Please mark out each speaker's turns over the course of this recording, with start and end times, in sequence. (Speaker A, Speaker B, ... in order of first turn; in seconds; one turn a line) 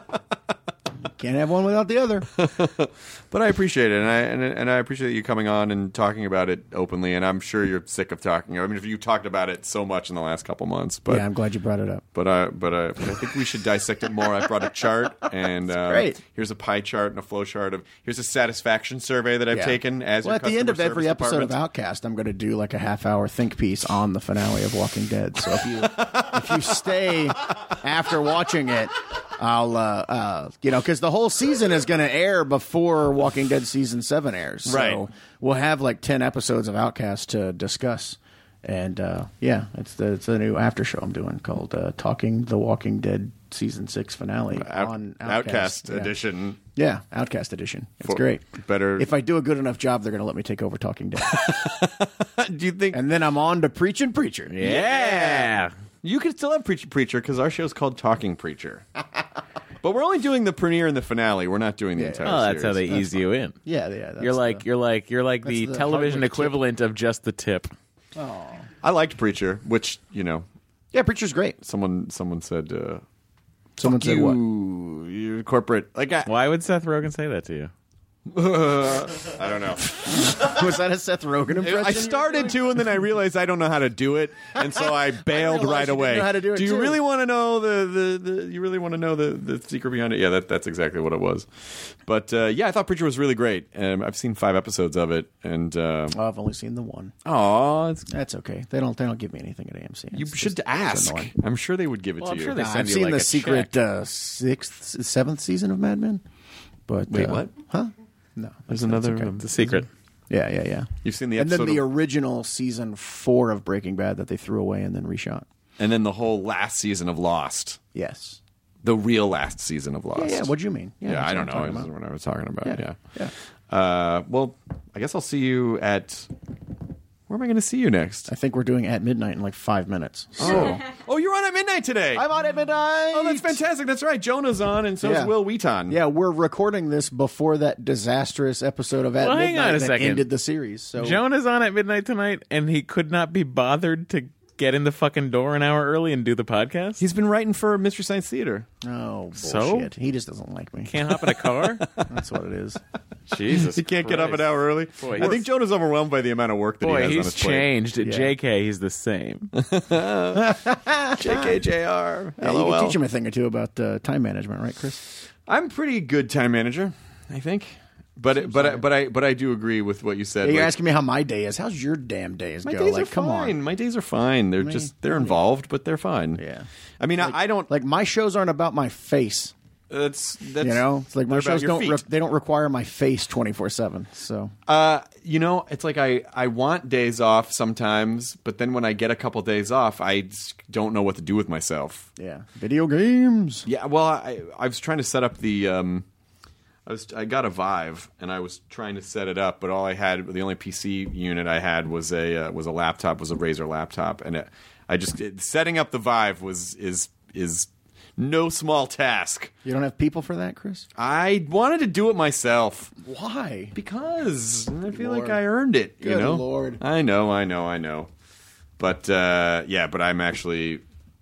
Speaker A: 1.0-2.3
Speaker B: 2.4-11.3
Speaker A: 11.1-12.0
Speaker B: 12.1-21.6
Speaker A: 15.7-16.2
Speaker A: 19.5-46.1
Speaker B: 26.0-26.3
Speaker B: 34.7-35.0
Speaker B: 44.5-46.6
Speaker A: 46.8-51.6
Speaker B: 48.0-49.1
Speaker B: 51.2-53.0
Speaker A: 52.9-54.6
Speaker C: 54.5-55.7
Speaker B: 54.6-58.8
Speaker B: 59.8-62.9
Speaker A: 62.0-64.7
Speaker C: 62.2-63.5
Speaker C: 64.2-67.7
Speaker A: 65.4-66.6
Speaker A: 68.1-68.7
Speaker B: 68.8-70.4
Speaker A: 70.9-71.6
Speaker B: 71.6-73.0
Speaker A: 73.8-74.4
Speaker B: 73.8-76.3
Speaker C: 76.2-77.7
Speaker B: 78.3-80.5
Speaker A: 80.0-82.8
Speaker B: 81.6-96.2
Speaker A: 84.6-87.0
Speaker A: 96.1-97.1
Speaker B: 97.2-98.1
Speaker A: 98.1-101.3
Speaker B: 100.1-102.6
Speaker C: 102.2-103.7
Speaker A: 102.5-106.2
Speaker A: 106.9-115.5
Speaker B: 107.1-107.5
Speaker B: 108.7-109.7
Speaker C: 109.4-109.9
Speaker B: 111.0-111.8
Speaker B: 115.8-117.8
Speaker A: 117.9-118.4
Speaker B: 118.8-120.5
Speaker A: 120.1-121.9
Speaker B: 121.0-123.0
Speaker A: 122.6-123.3
Speaker B: 123.7-126.3
Speaker B: 127.3-128.3
Speaker A: 128.3-130.8
Speaker B: 130.4-132.3
Speaker A: 132.1-133.6
Speaker B: 133.1-136.0
Speaker A: 135.0-135.3
Speaker A: 135.9-141.2
Speaker C: 139.2-140.2
Speaker C: 141.0-147.0
Speaker B: 147.0-148.7
Speaker A: 148.8-151.2
Speaker C: 149.4-149.9
Speaker C: 150.8-151.8
Speaker A: 152.1-152.8
Speaker C: 153.3-155.4
Speaker B: 153.5-157.7
Speaker A: 155.2-155.4
Speaker C: 156.8-159.5
Speaker A: 158.0-158.3
Speaker B: 159.5-160.6
Speaker A: 160.3-161.6
Speaker B: 161.2-163.0
Speaker A: 162.4-165.0
Speaker B: 165.5-170.7
Speaker A: 168.3-168.8
Speaker A: 170.4-173.6
Speaker B: 172.6-176.4
Speaker A: 174.6-175.4
Speaker A: 176.4-176.7
Speaker B: 177.0-177.7
Speaker A: 177.2-179.5
Speaker B: 179.9-182.0
Speaker A: 180.6-184.5
Speaker B: 184.7-192.1
Speaker A: 192.2-193.7
Speaker B: 193.7-196.0
Speaker B: 196.8-209.5
Speaker A: 209.6-210.9
Speaker B: 210.9-212.9
Speaker A: 213.0-213.7
Speaker B: 213.7-218.1
Speaker A: 214.9-215.4
Speaker A: 216.0-216.8
Speaker B: 218.8-220.8